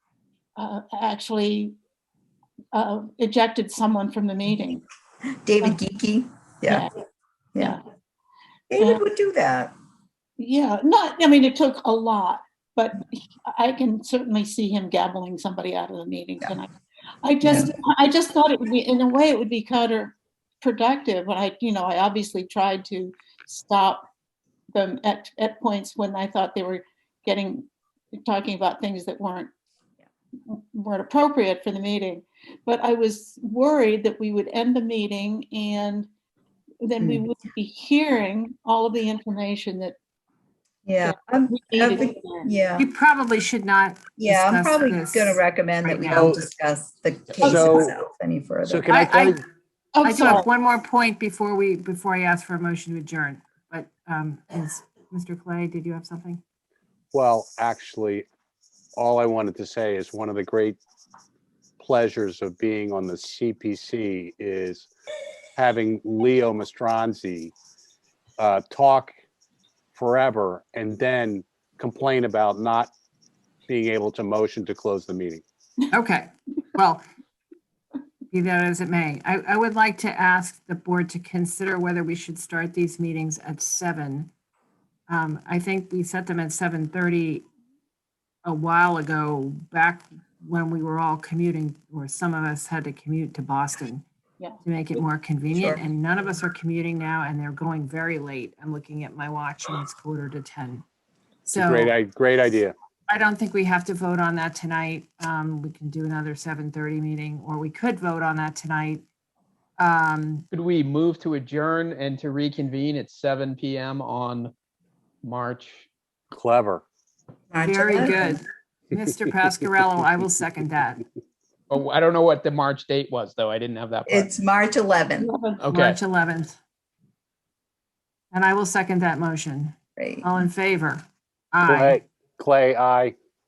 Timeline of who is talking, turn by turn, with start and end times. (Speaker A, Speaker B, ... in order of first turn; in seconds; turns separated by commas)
Speaker A: 0.6-1.7, Speaker A: 2.7-4.8, Speaker B: 5.4-6.9, Speaker A: 6.7-6.9, Speaker B: 8.7-9.7, Speaker A: 10.4-16.7, Speaker A: 17.2-24.1, Speaker B: 17.4-17.7, Speaker A: 24.7-29.5, Speaker A: 30.5-36.1, Speaker A: 36.8-40.0, Speaker B: 37.0-37.2, Speaker B: 40.9-42.9, Speaker A: 41.0-42.5, Speaker C: 42.8-46.3, Speaker B: 44.2-48.9, Speaker A: 47.4-47.9, Speaker D: 47.4-47.9, Speaker D: 48.6-49.4, Speaker C: 48.9-49.4, Speaker A: 49.9-50.5, Speaker C: 50.0-56.4, Speaker D: 57.1-58.2, Speaker D: 59.0-60.8, Speaker D: 61.8-64.9, Speaker D: 65.5-67.5, Speaker D: 68.4-69.1, Speaker D: 69.9-72.9, Speaker D: 73.7-75.4, Speaker C: 75.9-77.0, Speaker C: 78.3-84.3, Speaker C: 85.1-87.4, Speaker C: 88.4-94.0, Speaker C: 94.6-100.8, Speaker B: 95.5-95.8, Speaker C: 101.5-101.9, Speaker D: 101.5-102.7, Speaker C: 103.1-109.0, Speaker C: 109.8-110.5, Speaker E: 110.5-114.5, Speaker E: 115.2-115.9, Speaker D: 116.3-116.8, Speaker B: 117.5-118.4, Speaker C: 117.6-121.0, Speaker E: 121.7-124.3, Speaker B: 124.1-125.3, Speaker A: 125.2-125.6, Speaker E: 125.6-126.0, Speaker C: 125.7-126.6, Speaker C: 128.3-132.0, Speaker B: 130.0-130.3, Speaker D: 131.6-133.1